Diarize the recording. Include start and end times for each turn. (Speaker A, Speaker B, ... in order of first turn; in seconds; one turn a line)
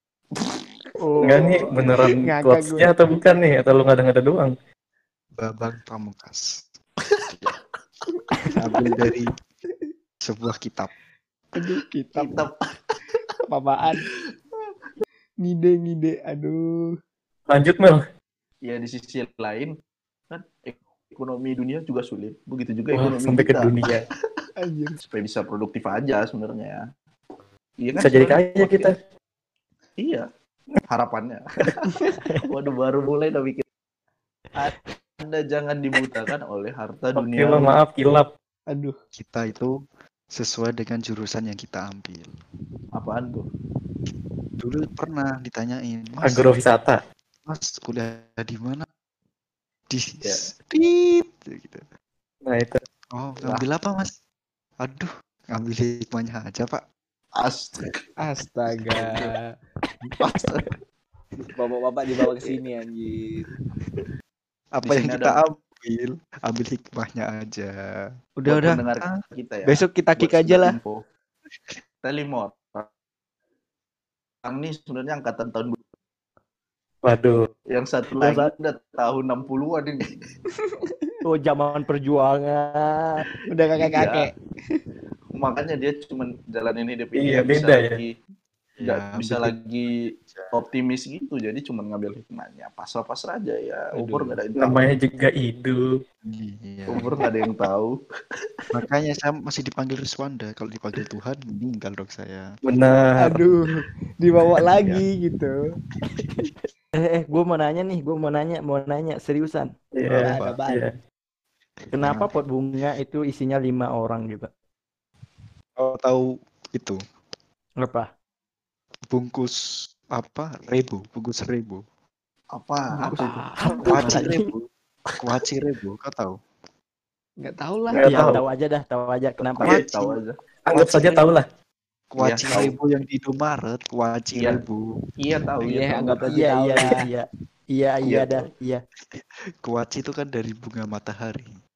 Speaker A: 0.3-0.7
Speaker B: 1.0-1.5
Speaker C: 1.2-2.9
Speaker D: 1.2-4.5
Speaker E: 5.4-6.6
Speaker E: 8.6-9.3
Speaker E: 10.2-10.9
Speaker C: 11.5-12.4
Speaker A: 12.1-13.2
Speaker C: 13.5-14.1
Speaker C: 15.4-16.6
Speaker D: 17.5-18.0
Speaker A: 18.6-19.7
Speaker A: 20.3-23.7
Speaker D: 22.9-24.0
Speaker C: 24.6-25.0
Speaker A: 25.0-26.8
Speaker A: 27.8-28.9
Speaker D: 27.9-28.9
Speaker A: 30.0-30.2
Speaker A: 30.9-31.8
Speaker A: 32.4-33.6
Speaker A: 35.2-37.8
Speaker D: 37.1-38.3
Speaker C: 38.7-38.9
Speaker E: 39.1-39.7
Speaker E: 40.3-42.3
Speaker A: 42.9-43.5
Speaker E: 44.6-46.5
Speaker D: 46.2-47.0
Speaker E: 47.5-48.8
Speaker E: 49.9-51.8
Speaker A: 50.2-50.5
Speaker D: 52.5-52.8
Speaker E: 53.1-54.1
Speaker E: 54.8-56.8
Speaker A: 57.4-57.9
Speaker C: 58.2-59.5
Speaker A: 60.2-60.7
Speaker C: 61.5-63.4
Speaker A: 62.2-62.5
Speaker E: 64.8-69.2
Speaker A: 64.8-65.4
Speaker C: 68.4-68.8
Speaker A: 68.5-71.0
Speaker C: 69.6-70.8
Speaker A: 72.0-72.9
Speaker A: 74.4-75.8
Speaker D: 77.0-77.4
Speaker A: 77.7-80.3
Speaker B: 78.2-78.5
Speaker C: 80.5-81.2
Speaker B: 81.2-83.1
Speaker C: 83.5-84.8
Speaker A: 83.8-84.3
Speaker A: 85.3-88.1
Speaker D: 87.2-88.0
Speaker E: 88.8-90.6
Speaker A: 88.8-90.0
Speaker A: 90.5-94.8
Speaker C: 93.9-94.4
Speaker D: 94.5-95.8
Speaker E: 96.2-97.2
Speaker A: 96.9-97.9
Speaker E: 98.7-102.5
Speaker D: 102.6-103.4
Speaker C: 103.2-105.5
Speaker E: 104.6-105.0
Speaker B: 107.0-109.7
Speaker D: 110.0-110.9
Speaker E: 110.1-110.6
Speaker C: 110.2-110.9
Speaker B: 111.9-114.5
Speaker E: 111.9-112.3
Speaker E: 115.8-117.0
Speaker B: 117.8-118.1
Speaker E: 119.1-119.6
Speaker E: 120.1-121.8
Speaker A: 122.5-124.3
Speaker B: 123.1-124.5
Speaker C: 123.1-123.7
Speaker E: 123.8-124.7
Speaker E: 125.2-126.4
Speaker C: 127.4-128.1
Speaker D: 127.9-128.4
Speaker B: 128.0-129.8
Speaker A: 129.5-130.3
Speaker E: 129.7-130.2
Speaker D: 130.7-131.4
Speaker E: 132.1-134.8
Speaker A: 132.2-132.7
Speaker A: 134.3-134.6
Speaker A: 135.2-136.9
Speaker C: 135.6-137.0
Speaker B: 136.3-138.8
Speaker A: 138.0-138.5
Speaker E: 139.1-141.5